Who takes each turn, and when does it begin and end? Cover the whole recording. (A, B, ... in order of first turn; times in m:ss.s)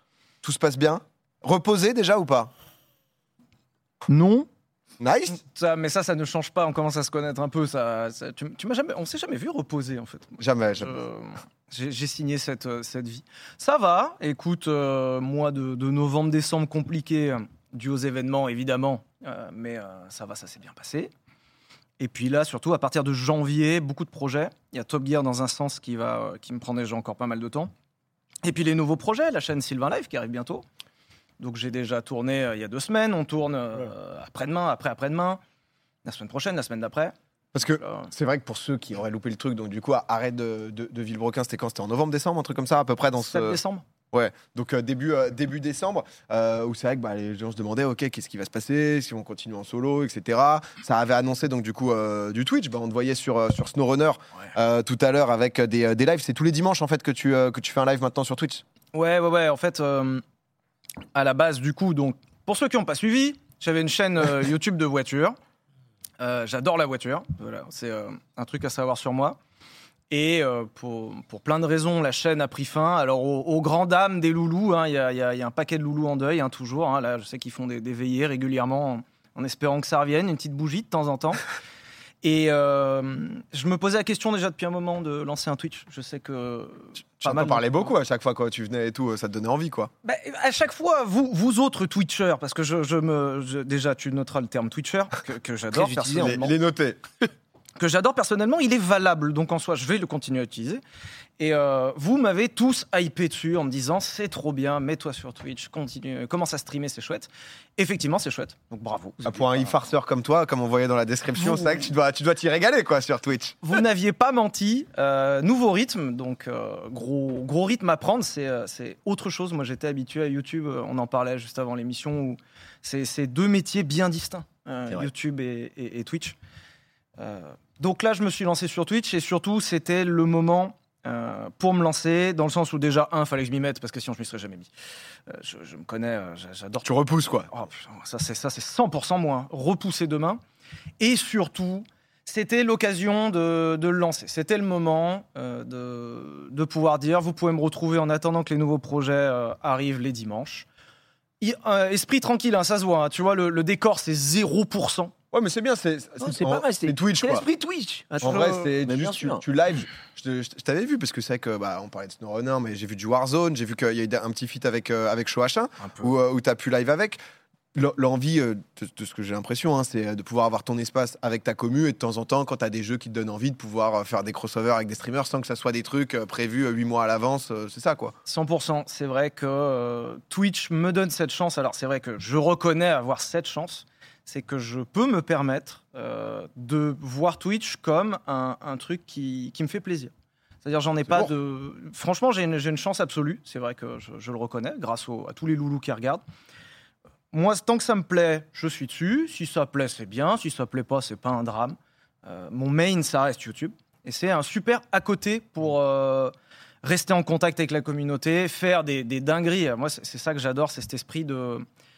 0:00.4-0:02.5 A
0:04.1-0:04.5 B
0:05.0-0:05.4 A
0:05.3-0:21.1 B
0:10.4-0:11.0 A
0:22.0-0:27.7 B
0:28.4-0:30.6 B
0:31.4-0:35.4 B
0:36.0-0:37.1 B
0:37.5-0:43.6 A
0:37.8-0:38.1 B
0:43.2-0:43.8 B
0:44.1-0:58.6 A
0:58.9-1:00.2 B
1:01.1-1:05.4 B
1:06.2-1:09.4 B
1:10.1-1:21.4 B
1:22.2-1:27.9 B
1:27.2-1:29.9 A
1:30.0-1:36.6 B
1:35.7-1:36.4 C
1:36.2-1:37.0 A
1:37.8-1:40.8 B
1:41.4-1:49.8 B
1:49.2-1:53.6 A
1:51.4-1:51.9 B
1:53.6-2:06.4 B
2:07.2-2:14.7 B
2:15.3-2:20.4 B
2:16.8-2:17.5 A
2:21.0-2:30.7 B
2:31.4-2:35.1 B
2:35.3-2:37.5 A
2:36.2-2:38.3 C
2:38.1-2:38.7 B
2:38.2-2:47.2 A
2:38.8-2:39.4 C
2:45.8-2:46.1 B
2:47.7-2:58.1 A
2:58.3-3:16.2 B
3:17.3-3:31.6 B